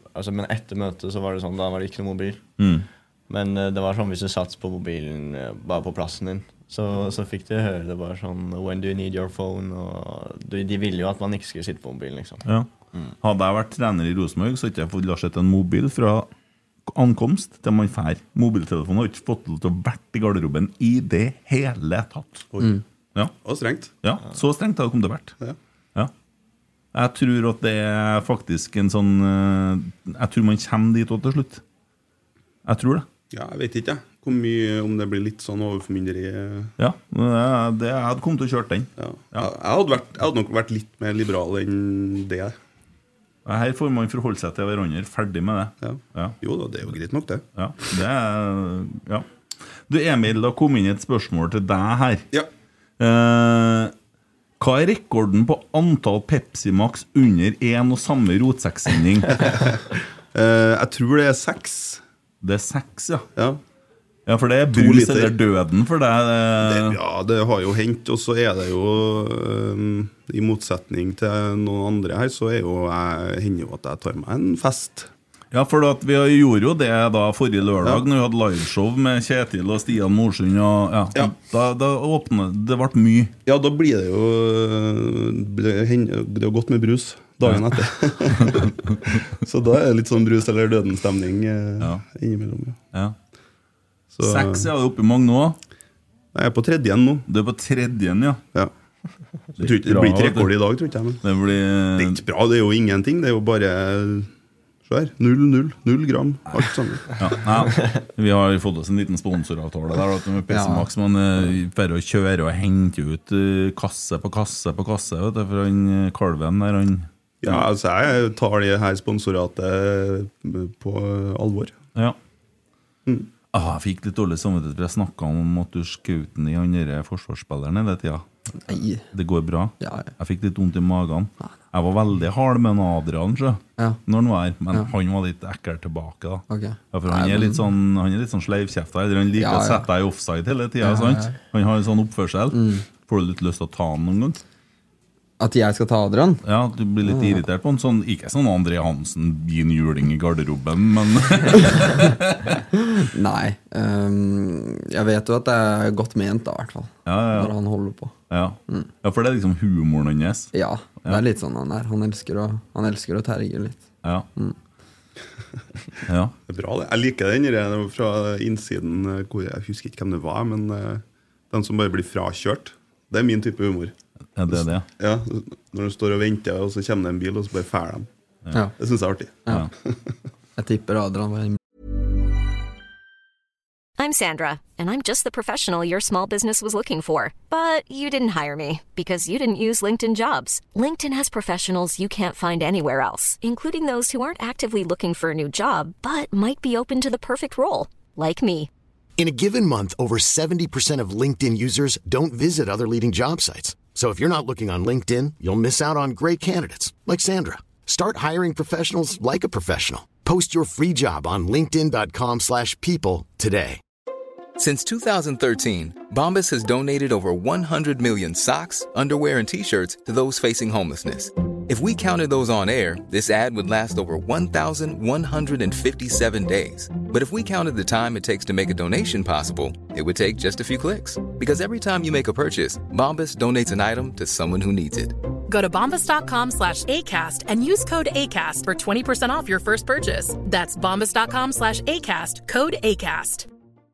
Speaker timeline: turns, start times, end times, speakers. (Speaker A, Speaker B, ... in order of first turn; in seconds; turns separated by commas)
Speaker A: 0.1-2.5, Speaker B: 2.6-2.9, Speaker A: 3.3-13.1, Speaker B: 13.2-16.3, Speaker B: 16.9-22.5, Speaker C: 22.5-22.8, Speaker C: 23.4-23.9, Speaker B: 24.0-25.3, Speaker B: 26.9-31.6, Speaker B: 32.6-33.1, Speaker C: 33.3-36.7, Speaker B: 36.8-39.5, Speaker C: 39.0-42.6, Speaker B: 43.5-46.4, Speaker C: 45.8-47.4, Speaker B: 47.6-49.3, Speaker B: 49.9-52.3, Speaker B: 53.0-53.9, Speaker B: 54.6-59.5, Speaker C: 59.4-62.0, Speaker B: 62.4-63.3, Speaker B: 64.3-67.0, Speaker C: 64.7-65.4, Speaker C: 66.6-75.1, Speaker B: 75.5-83.3, Speaker C: 83.5-92.8, Speaker B: 88.3-89.2, Speaker C: 94.1-94.7, Speaker B: 94.2-95.6, Speaker C: 96.3-97.3, Speaker B: 97.3-98.4, Speaker C: 99.6-101.2, Speaker B: 99.6-100.5, Speaker B: 101.2-102.2, Speaker C: 102.0-104.3, Speaker C: 104.9-107.2, Speaker B: 107.2-117.6, Speaker D: 110.5-110.9, Speaker C: 117.4-121.8, Speaker B: 123.5-144.4, Speaker D: 128.7-129.1, Speaker D: 129.8-130.1, Speaker D: 136.5-137.6, Speaker D: 139.4-139.9, Speaker D: 140.8-141.3, Speaker D: 142.5-142.8, Speaker D: 145.4-146.4, Speaker B: 146.4-152.6, Speaker D: 147.1-147.4, Speaker D: 152.9-158.2, Speaker B: 157.1-157.6, Speaker B: 158.3-160.5, Speaker D: 160.5-163.8, Speaker B: 166.1-166.3, Speaker C: 166.5-173.9, Speaker B: 174.3-174.9, Speaker C: 174.5-178.1, Speaker C: 178.8-179.9, Speaker D: 180.6-181.6, Speaker E: 184.0-198.7, Speaker F: 199.2-213.8, Speaker G: 214.6-235.1, Speaker H: 235.5-243.5